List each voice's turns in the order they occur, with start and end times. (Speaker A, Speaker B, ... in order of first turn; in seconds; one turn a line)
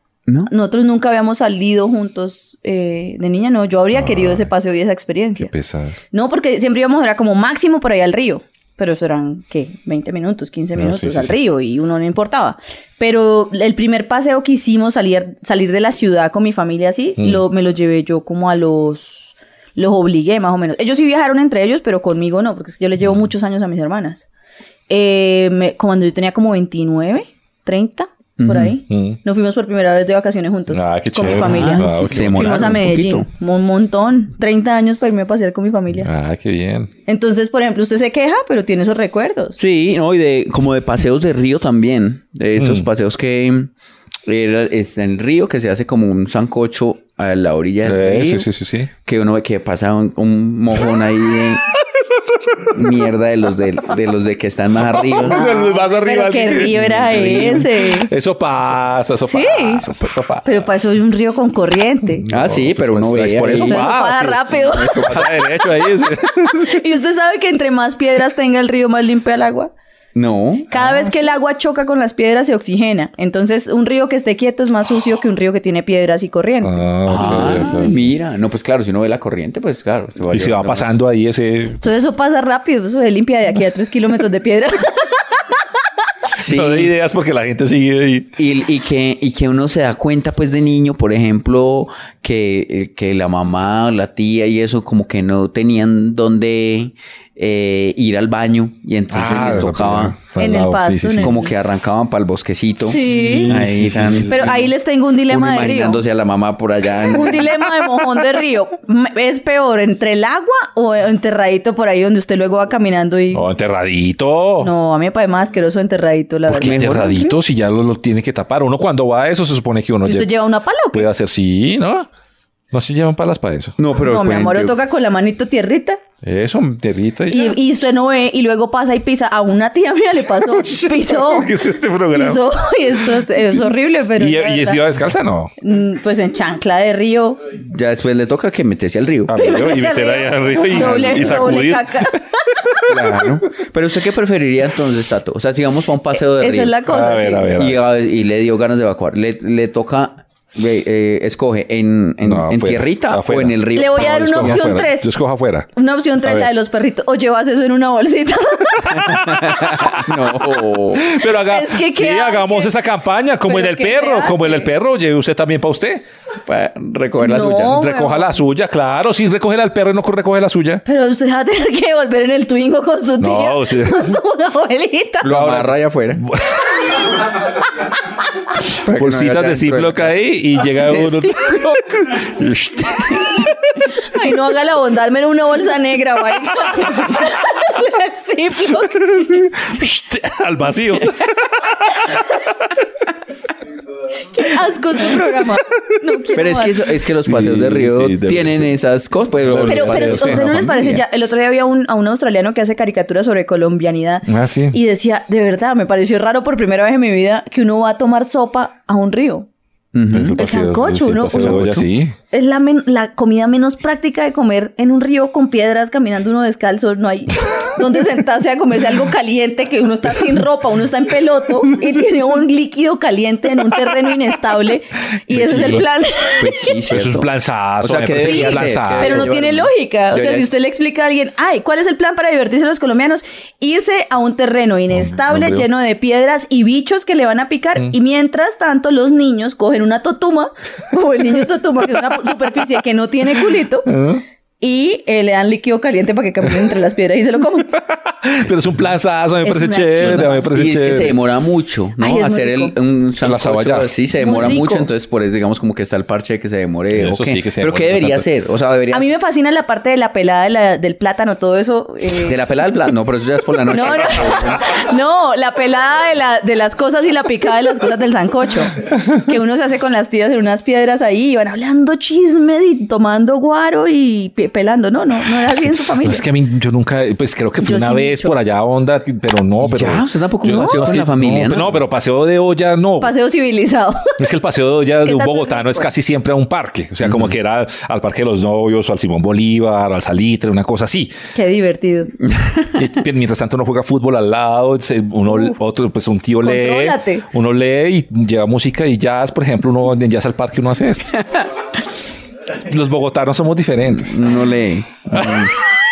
Speaker A: 0.5-5.5
Speaker B: 3.9-4.5
Speaker B: 5.4-6.0
Speaker A: 6.1-24.3
Speaker B: 10.8-11.3
Speaker A: 24.9-36.1
Speaker C: 28.4-28.8
Speaker B: 28.9-29.2
Speaker B: 30.7-32.8
Speaker C: 31.2-33.3
Speaker B: 36.0-36.9
Speaker A: 37.1-39.6
Speaker C: 39.6-43.7
Speaker B: 42.6-42.9
Speaker C: 44.3-48.5
Speaker B: 47.8-48.9
Speaker C: 49.0-51.7
Speaker C: 52.7-55.4
Speaker B: 55.2-60.7
Speaker A: 55.3-58.1
Speaker A: 59.2-59.9
Speaker A: 60.5-62.2
Speaker B: 62.2-66.8
Speaker C: 62.3-64.1
Speaker A: 63.6-69.7
Speaker C: 64.6-65.3
Speaker C: 70.2-70.8
Speaker A: 70.7-78.0
Speaker B: 76.6-78.0
Speaker C: 77.1-80.9
Speaker B: 80.3-82.0
Speaker A: 81.8-85.6
Speaker C: 86.3-86.9
Speaker B: 86.4-88.3
Speaker C: 88.4-100.2
Speaker B: 99.1-101.4
Speaker A: 100.4-101.5
Speaker C: 101.2-104.6
Speaker A: 102.8-103.5
Speaker B: 103.0-104.7
Speaker A: 104.3-106.0
Speaker C: 105.3-107.6
Speaker A: 107.1-113.5
Speaker B: 113.3-114.7
Speaker A: 114.6-117.4
Speaker B: 116.5-120.3
Speaker C: 116.5-117.2
Speaker A: 120.0-121.1
Speaker B: 120.9-122.1
Speaker B: 122.7-123.8
Speaker C: 123.8-124.8
Speaker A: 124.0-126.0
Speaker B: 126.2-127.6
Speaker A: 127.3-131.5
Speaker B: 130.3-132.5
Speaker A: 132.1-134.9
Speaker B: 134.2-135.5
Speaker A: 135.6-137.4
Speaker C: 137.6-139.3
Speaker B: 139.3-143.4
Speaker A: 139.3-142.4
Speaker C: 140.7-141.6
Speaker C: 142.9-146.8
Speaker A: 146.3-147.5
Speaker B: 146.9-147.9
Speaker C: 147.6-154.8
Speaker B: 152.2-155.7
Speaker A: 153.8-155.1
Speaker A: 155.8-159.2
Speaker B: 156.2-156.5
Speaker B: 158.8-160.1
Speaker C: 159.2-161.1
Speaker B: 161.0-166.1
Speaker A: 161.2-162.8
Speaker A: 163.4-164.7
Speaker C: 166.5-167.8
Speaker A: 167.2-168.4
Speaker B: 167.7-170.8
Speaker A: 170.8-175.3
Speaker B: 173.2-174.2
Speaker C: 175.2-176.2
Speaker B: 175.3-177.1
Speaker C: 178.7-180.2
Speaker B: 178.9-183.5
Speaker C: 180.9-181.2
Speaker A: 184.0-189.5
Speaker B: 189.0-192.4
Speaker A: 194.3-196.8
Speaker C: 196.3-201.0
Speaker B: 197.2-198.8
Speaker B: 199.4-200.5
Speaker A: 199.7-209.5
Speaker B: 204.3-204.8
Speaker C: 209.9-210.4
Speaker B: 210.1-212.2
Speaker A: 210.4-211.8
Speaker C: 211.3-211.8
Speaker A: 212.3-226.4
Speaker C: 225.3-225.8
Speaker B: 225.4-225.8
Speaker C: 226.4-227.3
Speaker B: 226.9-229.3
Speaker C: 227.8-230.4
Speaker A: 228.2-243.9
Speaker B: 234.9-235.7
Speaker B: 243.9-244.2
Speaker A: 244.6-247.8
Speaker B: 247.7-251.2
Speaker A: 249.4-250.5
Speaker C: 250.0-259.1
Speaker A: 252.0-252.7
Speaker B: 253.2-254.6
Speaker A: 254.2-254.9
Speaker B: 256.9-258.3
Speaker A: 258.9-262.4
Speaker C: 262.2-264.7
Speaker A: 263.7-276.2
Speaker B: 275.4-283.1
Speaker A: 277.6-278.3
Speaker C: 279.6-281.8
Speaker A: 280.6-280.9
Speaker A: 283.0-284.2
Speaker B: 284.2-291.1
Speaker A: 285.0-285.9
Speaker A: 291.4-292.1
Speaker C: 292.4-292.7
Speaker B: 292.8-301.2
Speaker A: 295.3-295.6
Speaker A: 296.4-297.3
Speaker B: 302.5-304.3
Speaker C: 304.0-305.6
Speaker B: 305.1-305.5